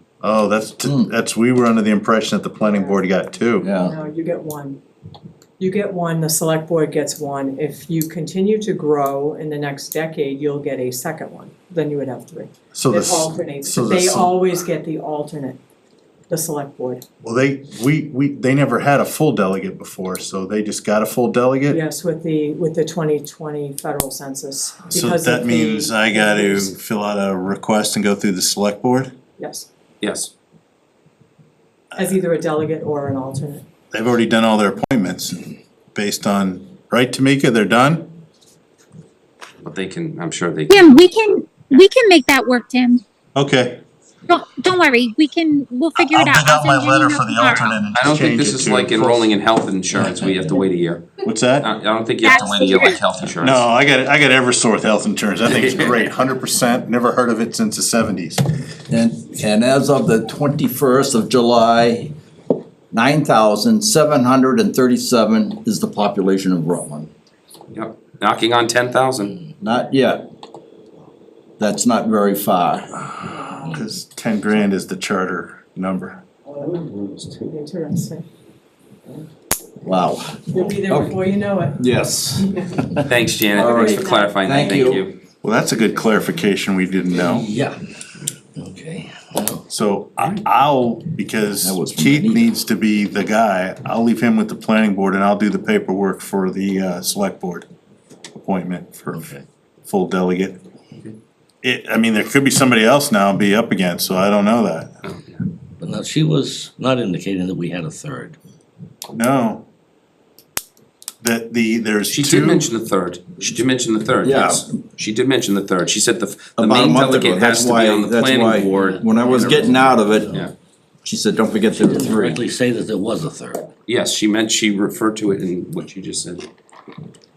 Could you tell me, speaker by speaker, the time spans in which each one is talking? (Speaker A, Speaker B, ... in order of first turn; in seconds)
Speaker A: 0.2-3.7, 12.7-14.5, 17.2-21.8, 24.9-29.1, 33.9-38.1, 43.3-43.8, 46.0-49.3, 51.2-51.7, 53.4-58.4, 73.6-76.2, 85.4-87.5, 89.7-97.7, 98.3-99.3, 99.8-100.6, 101.6-104.9, 109.1-109.6, 111.2-112.6
Speaker B: 2.6-3.0, 3.7-4.8, 5.6-15.6, 16.3-17.0, 21.7-26.7, 29.4-29.7, 31.9-33.6, 77.4-78.2, 80.5-82.8, 83.5-84.6
Speaker C: 3.6-3.9, 58.9-62.1, 62.9-67.1, 69.6-70.2, 71.6-73.0, 79.8-81.1, 81.8-83.0, 83.6-85.1, 91.6-92.5, 114.2-114.7, 116.6-120.3, 121.0-122.4
Speaker D: 30.0-30.3, 39.6-40.9, 47.9-53.7, 55.5-55.9, 67.7-69.4, 83.0-85.2, 90.2-90.4, 105.0-105.4, 112.1-119.8, 123.9-126.5
Speaker E: 40.7-43.0, 44.3-47.8, 52.2-53.0
Speaker F: 87.1-87.8, 88.5-89.6, 99.1-99.4, 105.8-108.3, 118.7-120.5, 121.7-123.7